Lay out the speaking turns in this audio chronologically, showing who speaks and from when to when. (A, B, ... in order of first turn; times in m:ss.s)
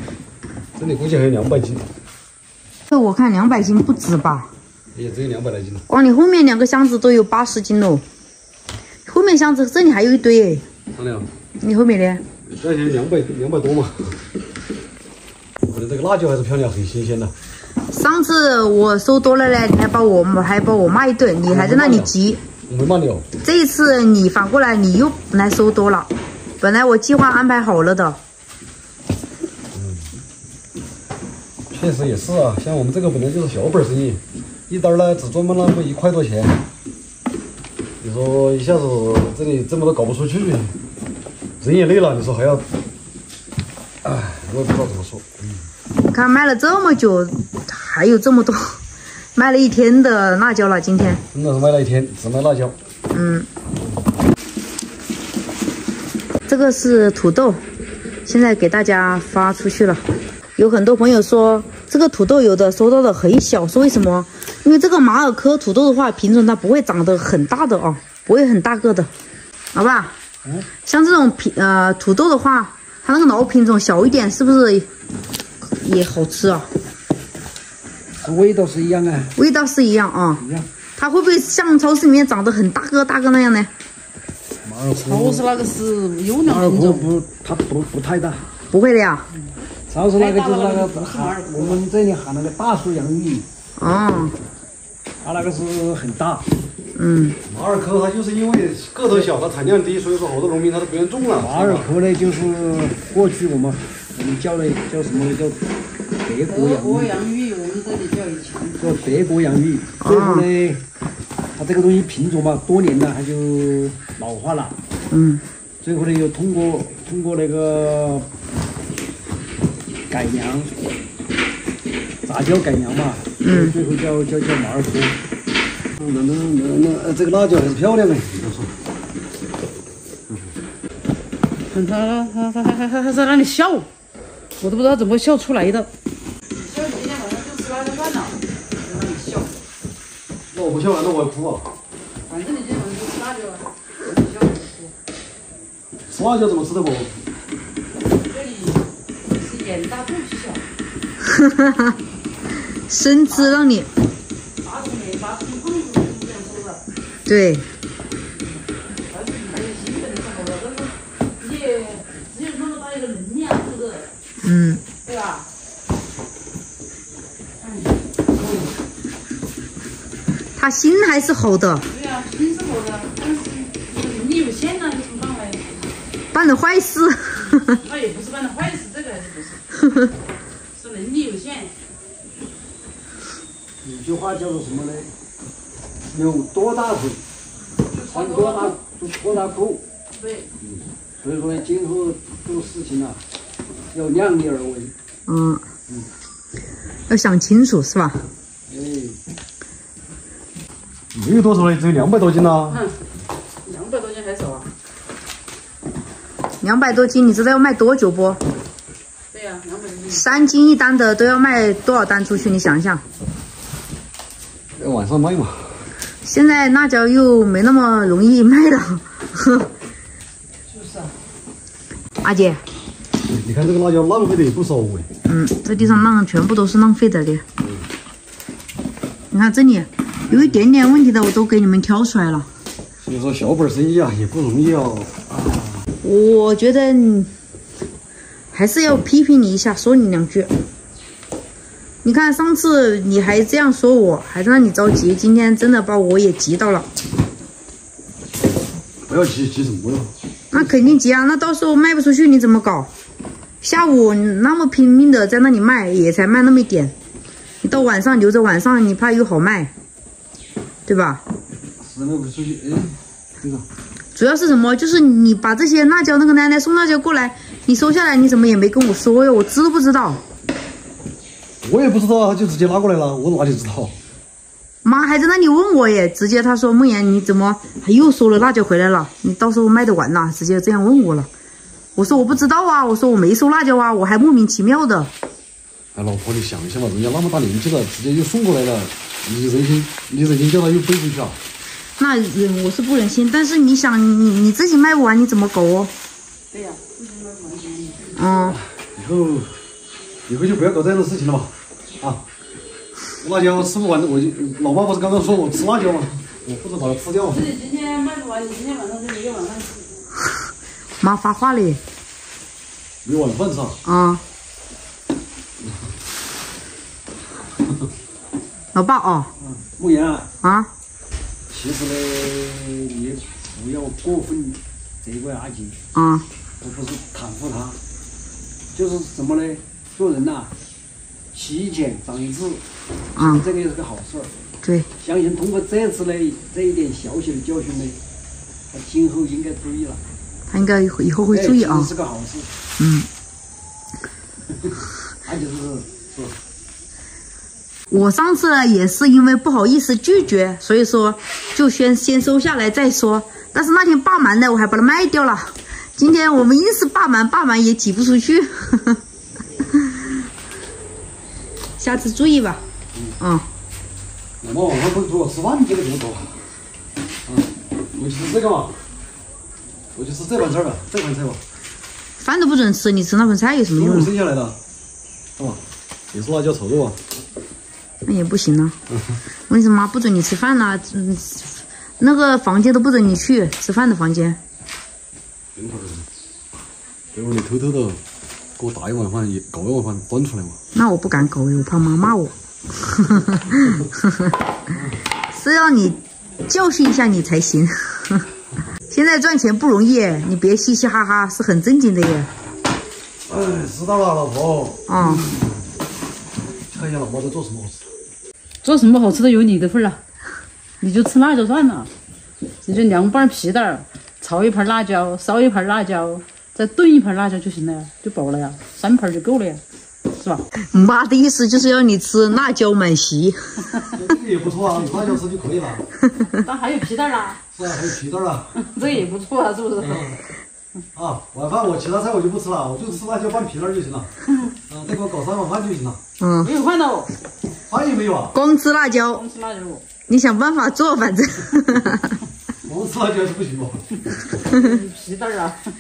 0:00.8-0:01.9 A
0:02.9-0:04.5 B
0:04.9-0:05.8 A
0:05.9-0:08.0 B
0:09.1-0:10.6 B
0:11.0-0:11.3 A
0:11.6-0:12.2 B
0:12.5-0:14.2 A
0:15.6-0:17.4 A
0:17.9-0:22.4 B
0:21.5-0:22.1 A
0:22.7-0:23.3 A
0:23.4-0:28.2 B
0:29.8-0:30.1 A
0:31.7-0:36.6 A
0:38.0-0:40.8 A
0:41.6-0:42.7 A
0:44.0-0:45.6 A
0:46.0-0:48.8 B
0:49.4-0:51.2 B
0:51.3-0:52.8 A
0:53.1-0:53.5 B
0:56.5-0:57.6 B
0:58.2-1:00.0 B
1:00.6-1:09.1 B
1:09.7-1:10.1 B
1:10.8-1:14.9 B
1:15.6-1:16.7 B
1:18.2-1:19.4 C
1:19.4-1:20.4 B
1:20.4-1:20.7 C
1:21.0-1:23.7 B
1:24.6-1:25.5 C
1:25.0-1:27.1 D
1:26.3-1:28.5 C
1:28.7-1:29.3 B
1:29.9-1:33.5 C
1:30.1-1:31.8 D
1:33.8-1:34.4 B
1:35.2-1:36.5 C
1:37.0-1:37.4 B
1:37.5-1:41.9 A
1:41.4-1:45.6 C
1:46.2-1:47.2 C
1:46.5-1:48.9 D
1:48.8-1:50.8 C
1:50.0-1:50.5 B
1:51.6-1:54.8 C
1:55.1-1:55.4 B
1:55.8-1:58.3 C
2:00.1-2:00.8 C
2:02.2-2:05.2 C
2:03.4-2:03.8 B
2:06.0-2:08.8 A
2:11.7-2:13.9 D
2:14.6-2:15.9 D
2:16.6-2:19.6 D
2:20.5-2:21.7 A
2:22.3-2:24.9 D
2:26.1-2:27.1 A
2:28.2-2:30.6 D
2:31.2-2:31.9 B
2:32.9-2:33.9 B
2:33.3-2:33.6 D
2:34.6-2:36.8 D
2:37.3-2:37.7 B
2:39.1-2:44.1 D
2:44.4-2:44.8 B
2:45.0-2:45.5 D
2:47.6-2:48.7 D
2:50.6-2:51.9 B
2:51.9-2:55.7 D
2:56.3-2:57.8 B
2:57.7-2:59.6 D
3:00.7-3:01.7 D
3:03.8-3:05.1 C
3:06.1-3:07.2 C
3:07.9-3:08.8 D
3:08.0-3:09.8 C
3:10.2-3:10.5 D
3:11.2-3:13.2 C
3:13.9-3:15.0 C
3:15.3-3:15.6 B
3:17.1-3:18.2 B
3:18.7-3:19.2 C
3:21.1-3:22.8 A
3:22.7-3:23.0 D
3:23.6-3:24.7 D
3:26.6-3:28.4 B
3:29.3-3:30.5 D
3:30.1-3:33.0 B
3:34.8-3:35.8 A
3:36.2-3:39.7 B
3:40.7-3:41.1 D
3:42.2-3:42.6 B
3:43.3-3:45.1 A
3:45.3-3:47.4 B
3:49.3-3:52.5 B
3:53.0-3:55.8 A
3:56.0-3:57.3 B
3:58.5-4:00.5 B
4:02.0-4:06.9 B
4:09.1-4:10.8 A
4:10.5-4:12.9 B
4:13.6-4:16.9 B
4:17.6-4:19.7 B
4:20.9-4:21.2 B
4:21.8-4:23.6 A
4:24.2-4:30.2 B
4:31.6-4:33.9 A
4:34.8-4:41.3 B
4:42.0-4:45.1 B
4:46.0-4:51.4 A
4:52.0-4:55.9 B
4:56.5-4:58.4 D
4:58.2-4:58.6 B
4:58.5-4:59.6 A
5:00.3-5:02.2 A
5:03.2-5:07.5 A
5:07.3-5:09.9 D
5:11.0-5:11.8 B
5:13.0-5:13.8 A
5:13.8-5:14.2 B
5:18.7-5:19.3 B
5:19.4-5:20.3 C
5:20.4-5:20.7 B
5:21.5-5:25.8 C
5:26.0-5:26.3 B
5:26.6-5:27.8 C
5:28.7-5:30.5 C
5:31.3-5:32.6 C
5:33.2-5:34.3 C
5:33.2-5:33.5 B
5:34.6-5:34.9 B
5:35.0-5:38.0 C
5:38.7-5:40.0 C
5:40.5-5:41.9 B
5:41.3-5:42.5 C
5:42.8-5:43.1 B
5:45.2-5:46.0 C
5:47.9-5:59.0 B
6:01.8-6:02.6 B
6:03.2-6:03.5 B
6:04.4-6:06.5 A
6:07.3-6:08.8 A
6:10.0-6:11.4 A
6:12.2-6:14.1 B
6:13.8-6:14.6 A
6:16.1-6:17.0 A
6:18.0-6:18.8 B
6:18.9-6:19.2 A
6:19.5-6:24.4 B
6:25.6-6:26.1 A
6:27.1-6:28.0 A
6:28.6-6:30.6 A
6:30.7-6:34.3 B
6:35.3-6:38.3 B
6:38.9-6:42.3 B
6:43.3-6:45.4 A
6:44.9-6:45.3 B
6:46.7-6:47.9 A
6:48.6-6:50.0 D
6:50.8-6:51.9 D
6:52.6-7:00.4 D
7:00.6-7:03.7 B
7:03.9-7:05.9 A
7:06.3-7:07.4 D
7:07.6-7:08.5 A
7:08.6-7:10.2 D
7:09.8-7:10.2 A
7:11.0-7:14.1 A
7:14.7-7:16.0 A
7:16.2-7:16.5 B
7:16.4-7:17.1 D
7:17.7-7:18.4 A
7:18.3-7:19.2 B
7:19.1-7:19.8 D
7:20.1-7:22.2 B
7:22.6-7:23.9 A
7:24.4-7:25.6 D